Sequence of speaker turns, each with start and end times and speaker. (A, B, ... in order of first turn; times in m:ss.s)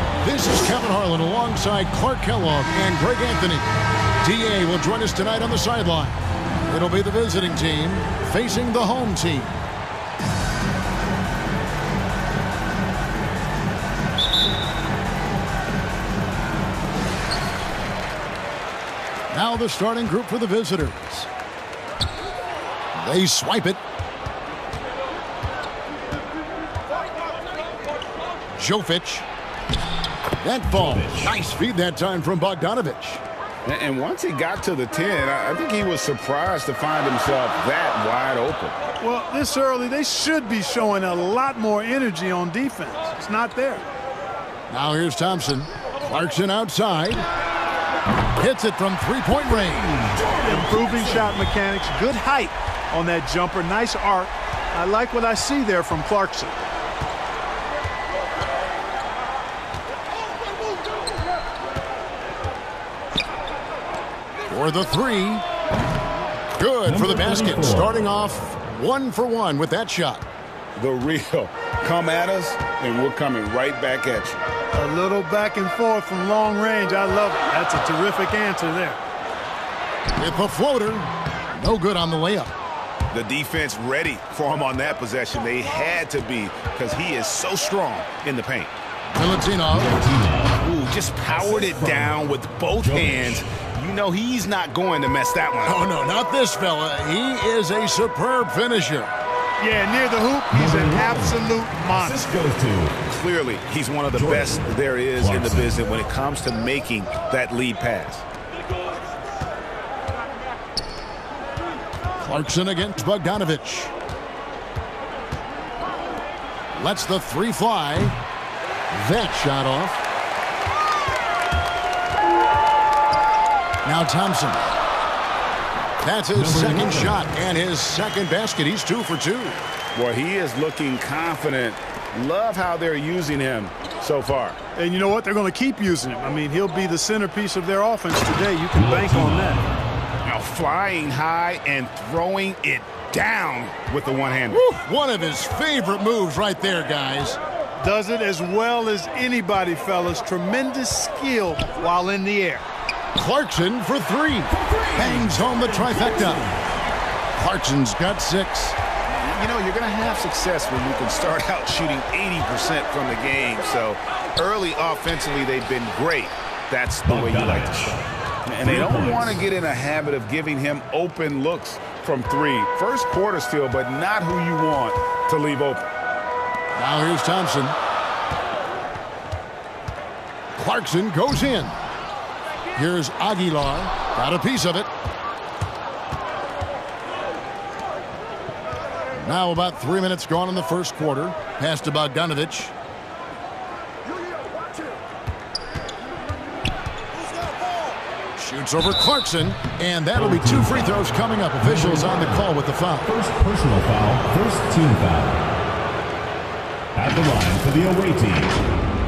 0:00.2-0:03.7 A
0:04.2-0:09.6 A
0:19.3-0:21.3 A
0:23.0-0:23.8 A
0:28.6-0:29.2 A
0:30.4-0:33.2 A
0:30.7-0:31.4 B
0:33.6-0:38.8 C
0:39.0-0:43.8 D
0:44.7-0:47.3 A
0:48.4-0:50.1 A
0:49.8-0:51.4 B
0:50.3-0:56.6 D
1:04.5-1:05.4 A
1:06.6-1:10.2 A
1:06.9-1:07.9 B
1:10.8-1:14.4 C
1:14.7-1:19.0 D
1:20.2-1:22.5 A
1:23.1-1:28.8 C
1:29.1-1:30.1 A
1:29.8-1:30.6 B
1:30.6-1:35.8 C
1:31.3-1:32.2 B
1:32.8-1:33.4 B
1:35.6-1:39.1 A
1:39.6-1:42.4 D
1:40.5-1:42.9 B
1:43.2-1:48.2 C
1:44.1-1:45.8 B
1:52.2-1:53.9 A
1:56.8-1:58.2 A
1:58.9-2:00.0 A
2:03.8-2:04.6 A
2:06.0-2:09.6 A
2:06.4-2:07.2 B
2:10.0-2:14.6 C
2:14.8-2:19.7 D
2:18.7-2:19.6 B
2:20.2-2:24.6 C
2:24.5-2:27.4 A
2:27.8-2:32.6 D
2:33.2-2:36.4 A
2:34.6-2:36.5 B
2:37.4-2:38.8 A
2:39.2-2:55.9 C
2:47.1-2:48.1 B
2:48.6-2:49.4 B
2:56.8-2:57.8 A
3:00.6-3:01.8 A
3:02.8-3:04.9 A
3:09.2-3:12.7 A
3:18.4-3:23.1 A
3:20.2-3:21.0 B
3:21.6-3:22.5 B
3:23.0-3:25.4 B
3:27.0-3:28.6 B